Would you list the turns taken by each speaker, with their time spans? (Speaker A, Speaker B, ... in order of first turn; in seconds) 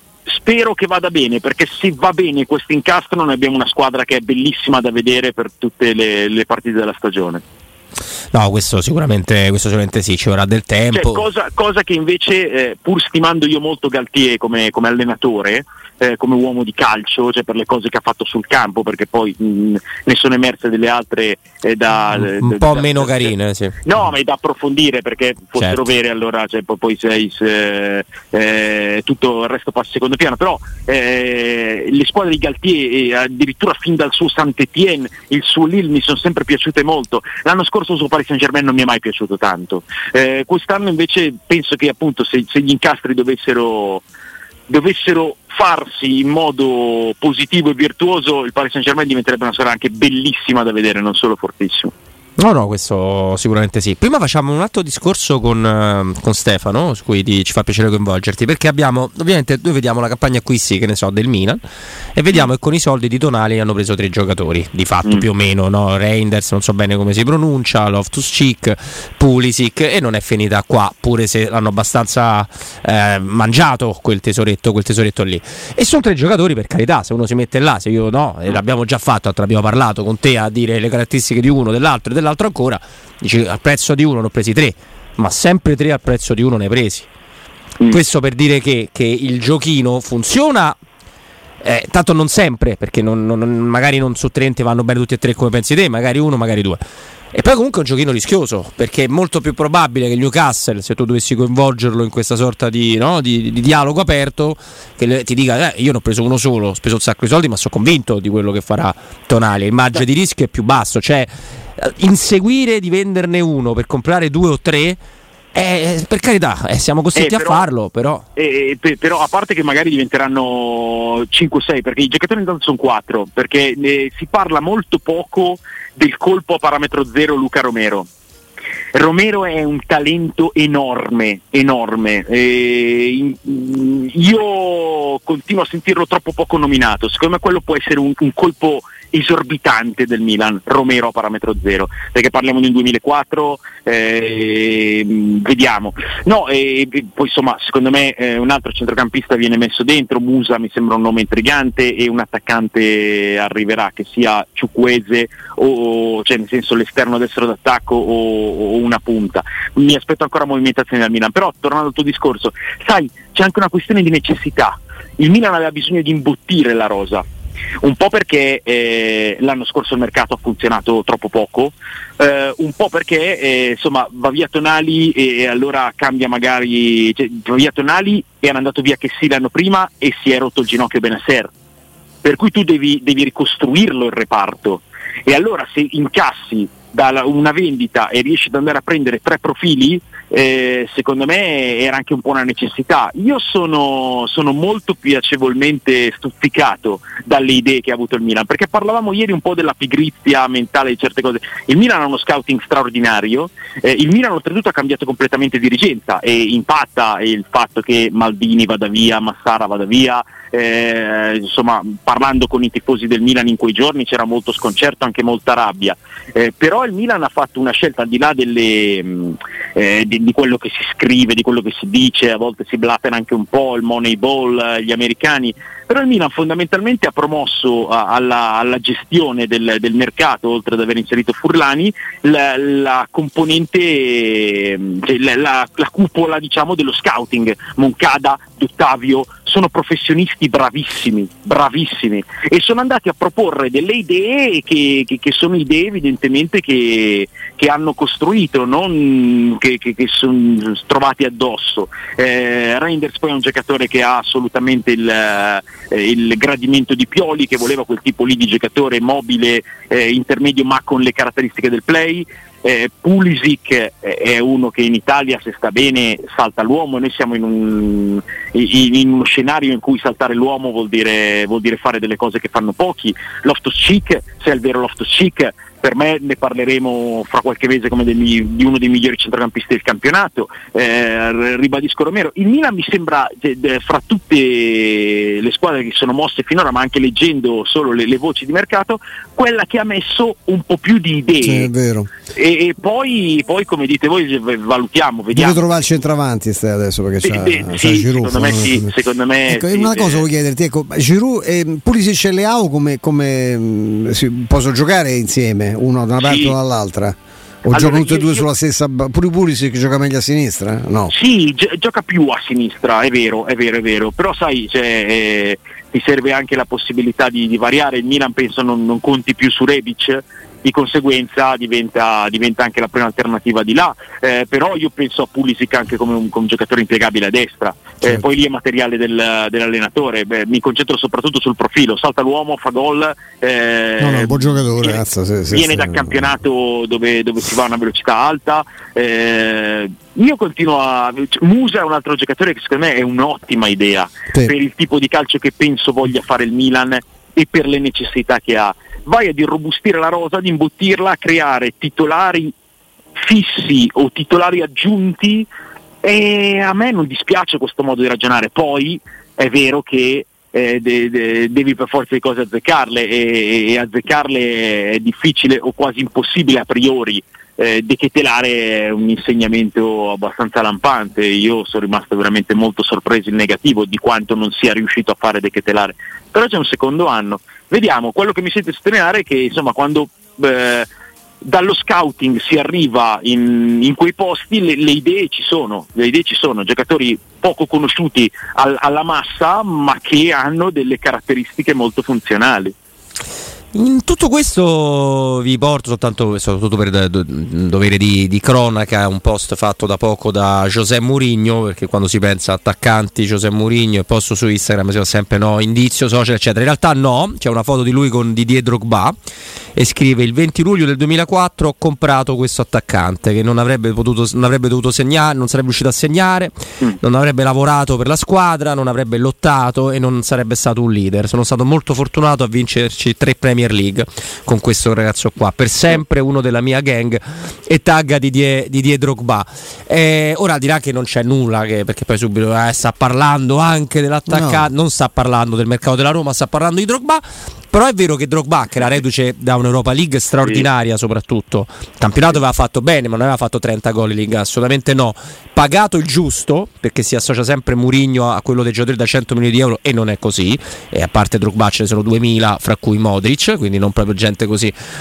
Speaker A: 0.3-7.4, 10.9-23.3, 23.8-44.0, 44.7-51.9, 117.2-117.7, 118.4-128.1, 128.9-167.2, 167.8-181.5, 182.2-291.7, 292.3-295.6, 297.2-300.3, 306.2-306.6, 307.7-308.4, 311.1-352.5, 353.2-355.5, 356.0-380.9, 381.4-392.8
Speaker B: 8.3-11.2, 22.1-23.8, 52.4-61.6, 62.1-87.1, 87.9-90.8, 91.6-96.8, 97.3-115.0, 115.5-118.2, 393.7-409.1, 409.8-454.7
Speaker C: 291.4-292.1, 295.3-298.9, 299.5-311.1, 334.0-336.2, 434.3-434.7